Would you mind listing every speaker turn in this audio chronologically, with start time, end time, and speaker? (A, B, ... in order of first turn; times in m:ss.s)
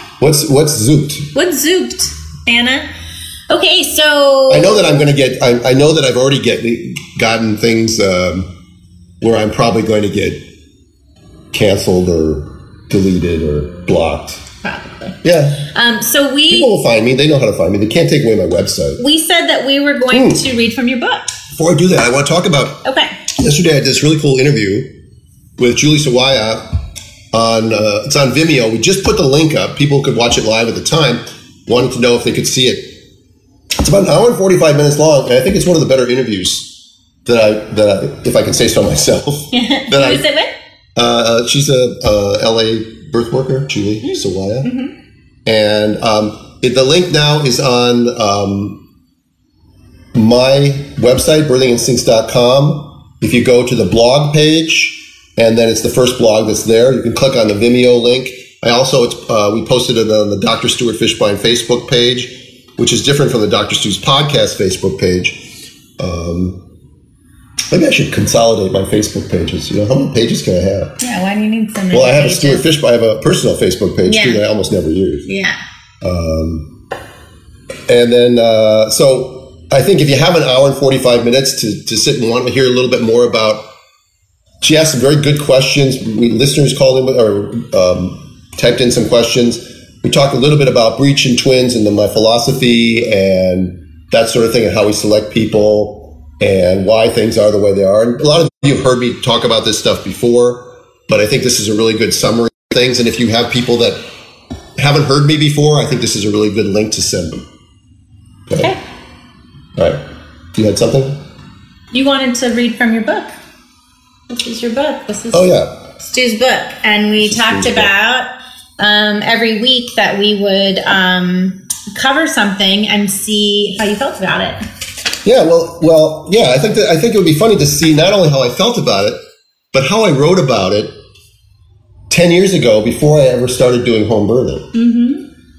0:00.2-0:01.3 A
0:01.3-0:02.9 B
0:03.5-0:04.8 B
0:04.5-0:08.5 A
0:09.2-0:10.4 A
0:11.5-0:14.4 A
0:14.6-0:15.2 B
0:15.2-0:15.7 A
0:15.7-0:16.7 B
0:16.5-0:19.0 A
0:19.0-0:21.3 B
0:20.1-0:20.4 A
0:21.5-0:22.8 A
0:22.8-0:23.2 B
0:23.3-0:24.9 A
0:25.6-0:26.8 A
0:27.3-0:33.0 A
0:33.8-0:40.2 A
0:39.5-0:40.5 B
0:41.0-0:44.7 A
0:44.0-0:44.9 B
0:45.4-0:48.8 A
0:50.1-1:05.5 A
1:06.0-1:06.6 A
1:07.7-1:11.0 A
1:11.0-1:12.6 B
1:11.9-1:15.3 A
1:14.0-1:14.4 B
1:15.2-1:15.6 B
1:16.0-1:16.7 A
1:17.9-1:23.6 A
1:24.6-1:44.0 A
1:44.8-1:47.4 A
1:48.5-1:48.7 A
1:50.5-1:51.2 A
1:51.9-1:53.3 B
1:54.3-1:55.5 B
1:55.3-1:55.8 A
1:56.0-1:58.3 B
1:57.2-1:57.9 A
1:58.8-2:04.6 B
2:05.2-2:09.2 A
2:09.7-2:10.9 A
2:12.1-2:14.7 A
2:14.7-2:15.2 B